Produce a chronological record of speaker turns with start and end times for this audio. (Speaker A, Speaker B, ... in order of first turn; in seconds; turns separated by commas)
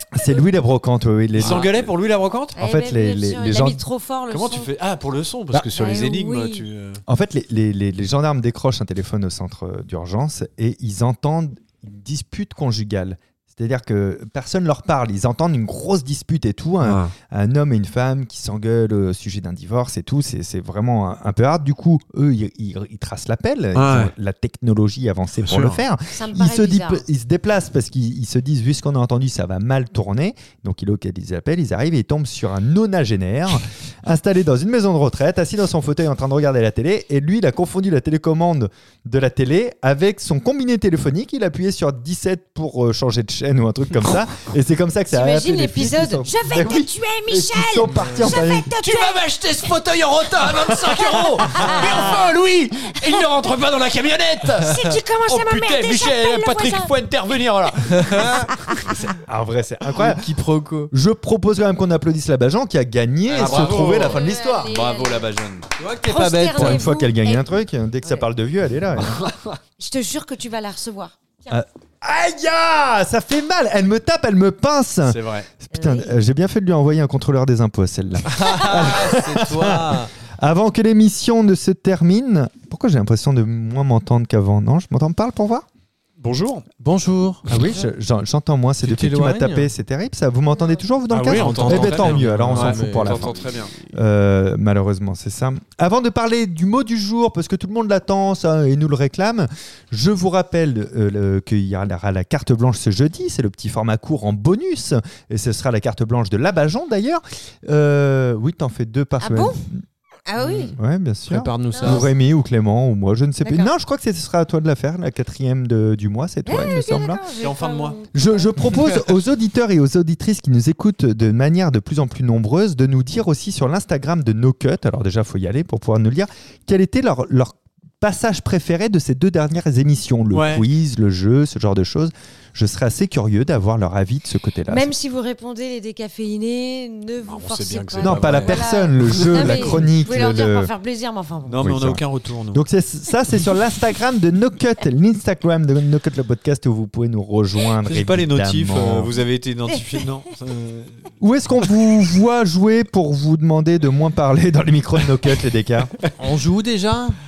Speaker A: 0.1-1.9, Speaker B: 1.4-2.6, Speaker C: 2.5-4.7, Speaker A: 2.6-3.8, Speaker B: 4.3-7.0, Speaker C: 5.7-6.7, Speaker A: 7.1-48.7, Speaker B: 16.8-17.1, Speaker B: 23.7-24.1, Speaker B: 25.4-25.8, Speaker C: 26.1-27.1, Speaker C: 45.1-49.3, Speaker B: 48.8-59.1, Speaker C: 50.6-52.3, Speaker C: 53.0-53.4, Speaker C: 54.6-56.9, Speaker D: 58.1-58.4, Speaker A: 59.1-60.3, Speaker D: 59.9-60.9, Speaker A: 60.9-64.7, Speaker B: 63.3-65.7, Speaker C: 63.5-65.4, Speaker D: 65.8-66.8, Speaker C: 66.0-68.3, Speaker A: 66.5-69.3, Speaker B: 69.0-69.6, Speaker C: 69.8-71.6, Speaker A: 71.5-85.7, Speaker B: 75.0-75.5, Speaker C: 75.7-76.2, Speaker D: 78.3-80.1, Speaker B: 86.2-86.7, Speaker D: 86.8-87.4, Speaker A: 87.5-109.8, Speaker D: 88.8-89.7, Speaker C: 90.6-90.8, Speaker D: 91.1-93.4, Speaker B: 91.1-93.7, Speaker C: 109.2-109.6, Speaker C: 110.3-110.8, Speaker A: 110.5-117.3, Speaker D: 111.3-112.1, Speaker C: 111.7-112.1, Speaker C: 113.4-113.7, Speaker C: 116.5-118.5, Speaker B: 117.4-118.0, Speaker A: 118.1-134.9, Speaker B: 130.3-130.7, Speaker C: 134.7-141.9, Speaker B: 137.2-139.9, Speaker A: 138.0-140.7, Speaker B: 141.5-142.7, Speaker A: 141.6-149.1, Speaker B: 147.8-151.1, Speaker A: 151.2-155.9, Speaker D: 156.2-157.2